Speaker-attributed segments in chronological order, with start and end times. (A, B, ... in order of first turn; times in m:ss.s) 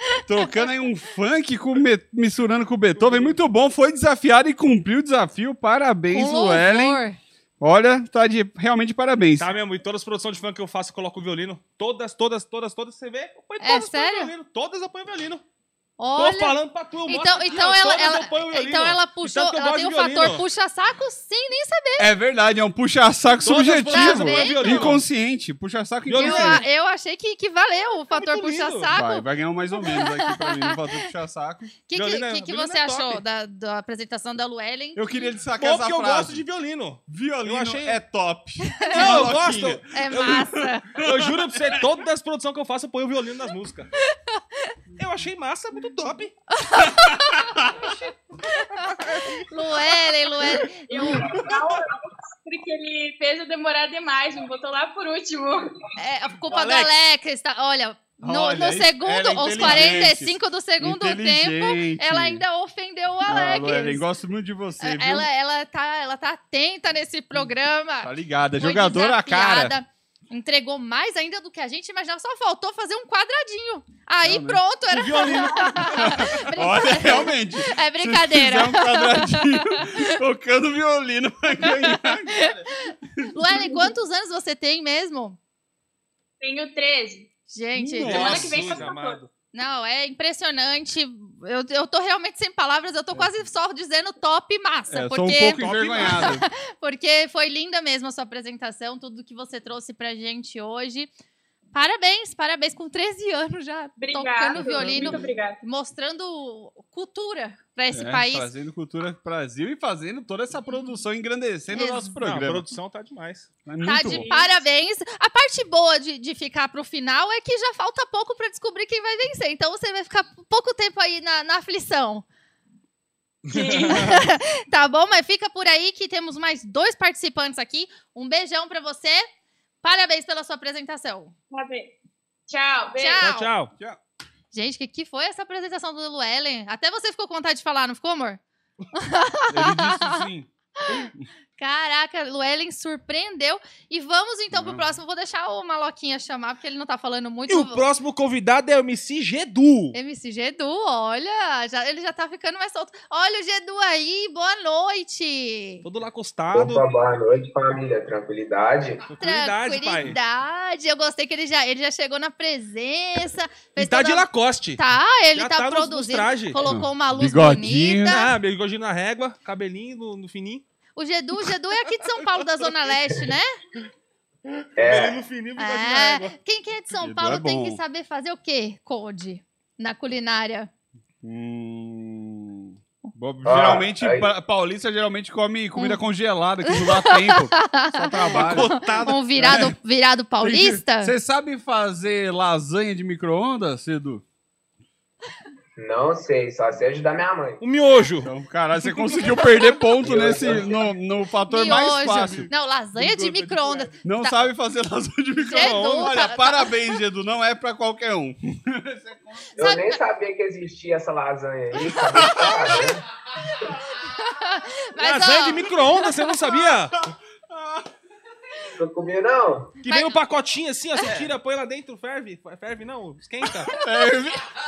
0:00.3-0:07.0 A
0:03.0-0:03.4 B
0:06.1-0:07.2 C
0:07.6-0:09.5 A
0:09.4-0:15.4 B
0:13.6-0:14.3 C
0:16.0-0:16.6 C
0:16.2-0:20.4 B
0:17.1-0:22.1 C
0:22.0-0:26.6 A
0:23.4-0:25.0 B
0:23.9-0:25.0 C
0:26.1-0:26.6 B
0:26.2-0:29.3 C
0:28.1-0:28.9 B
0:28.9-0:31.7 A
0:29.8-0:30.8 C
0:31.9-0:35.3 C
0:31.9-0:33.2 B
0:35.0-0:36.4 A
0:35.6-0:38.0 B
0:37.1-0:40.5 A
0:38.7-0:39.3 C
0:38.9-0:40.4 B
0:39.9-0:40.9 C
0:41.0-0:41.8 A
0:41.0-0:43.9 B
0:44.3-0:44.7 C
0:45.0-0:46.3 B
0:46.5-0:47.6 C
0:46.9-0:47.9 A
0:48.5-0:51.3 C
0:50.9-0:55.7 D
0:56.0-1:04.0 C
0:56.5-0:56.9 B
0:58.2-1:02.4 A
0:59.6-1:00.0 B
1:03.3-1:05.3 A
1:04.8-1:20.1 C
1:08.0-1:09.7 A
1:14.2-1:14.6 A
1:14.9-1:16.2 B
1:15.8-1:22.5 A
1:21.8-1:25.4 C
1:26.4-1:27.3 D
1:27.5-1:28.4 C
1:27.8-1:28.9 A
1:28.0-1:29.3 B
1:28.1-1:29.2 D
1:29.5-1:41.1 C
1:34.9-1:36.4 A
1:35.6-1:36.4 B
1:41.7-1:48.5 C
1:44.0-1:45.6 D
1:44.6-1:45.2 A
1:47.9-1:52.7 A
1:51.7-1:52.2 C
1:52.2-1:53.5 B
1:53.7-1:54.3 A
1:53.8-2:02.2 C
1:54.0-1:54.5 D
2:03.5-2:04.2 B
2:03.5-2:04.0 D
2:03.8-2:09.3 C
2:09.8-2:11.3 C
2:11.5-2:11.9 D
2:12.5-2:13.2 D
2:13.0-2:13.5 C
2:13.2-2:13.7 B
2:14.5-2:18.4 C
2:19.0-2:20.2 C
2:19.5-2:21.3 A
2:21.6-2:27.8 C
2:24.5-2:24.9 A
2:27.5-2:30.0 B
2:29.9-2:35.8 C
2:35.8-2:36.8 B
2:36.5-2:39.0 E
2:39.1-2:40.2 B
2:39.2-2:48.3 C
2:43.8-2:44.8 B
2:45.4-2:46.6 B
2:46.6-2:48.3 A
2:48.1-2:50.6 B
2:51.0-2:53.5 C
2:54.8-2:55.2 E
2:54.8-2:56.3 B
2:55.6-3:00.7 C
2:57.0-2:57.8 A
3:01.2-3:08.7 A
3:03.4-3:04.3 E
3:06.6-3:11.1 C
3:08.3-3:09.5 B
3:09.4-3:09.8 A
3:10.4-3:14.2 A
3:15.8-3:17.6 E
3:17.6-3:18.3 B
3:18.2-3:22.5 A
3:20.0-3:20.8 E
3:21.5-3:24.4 C
3:23.0-3:24.0 B
3:24.0-3:29.5 A
3:25.5-3:26.8 C
3:25.5-3:26.1 B
3:29.6-3:33.0 E
3:29.6-3:30.0 C
3:32.3-3:32.8 C
3:32.4-3:32.7 A
3:34.0-3:36.3 C
3:35.0-3:37.0 B
3:37.5-3:37.9 A
3:38.8-3:39.7 E
3:39.8-3:43.7 B
3:39.9-3:40.2 C
3:43.7-3:44.4 A